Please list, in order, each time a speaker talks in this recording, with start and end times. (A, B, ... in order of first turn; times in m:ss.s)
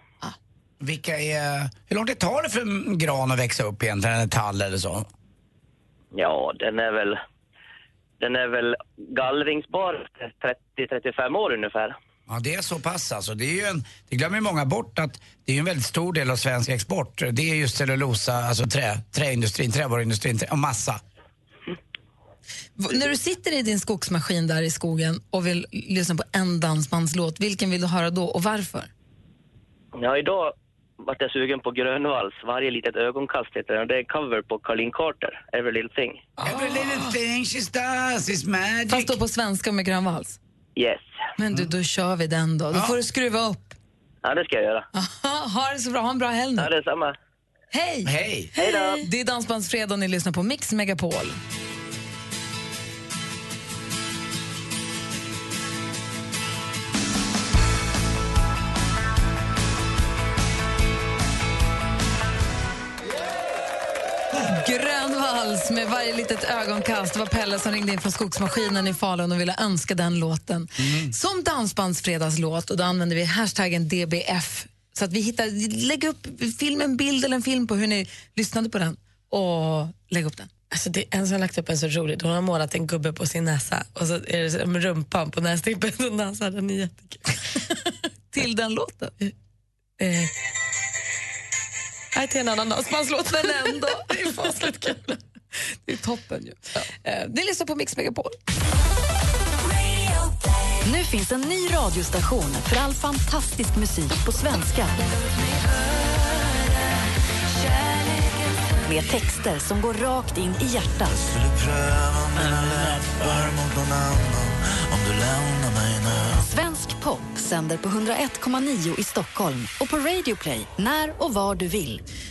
0:00.8-0:05.1 A
0:06.1-0:07.2 B
0:08.2-0:12.0 B
0:12.3-0:21.0 A
0:22.8-0:28.9 C
0:30.0-0:36.2 B
0:36.4-0:39.2 A
0:38.9-0:40.4 C
0:40.8-0:41.1 B
0:41.4-0:43.8 C
0:44.2-0:44.8 B
0:44.9-0:46.7 C
0:46.6-0:47.2 B
0:47.7-0:48.1 C
0:48.0-0:48.5 A
0:48.6-0:49.0 D
0:48.6-0:49.0 B
0:48.9-0:51.4 C
1:04.3-1:20.5 C
1:10.8-1:11.1 A
1:20.7-1:27.6 D
1:28.3-1:29.1 C
1:30.0-1:30.3 D
1:32.1-1:35.2 D
1:33.3-1:34.5 C
1:35.8-1:38.3 C
1:40.8-1:45.0 E
1:48.8-1:51.2 E
1:56.3-2:02.0 E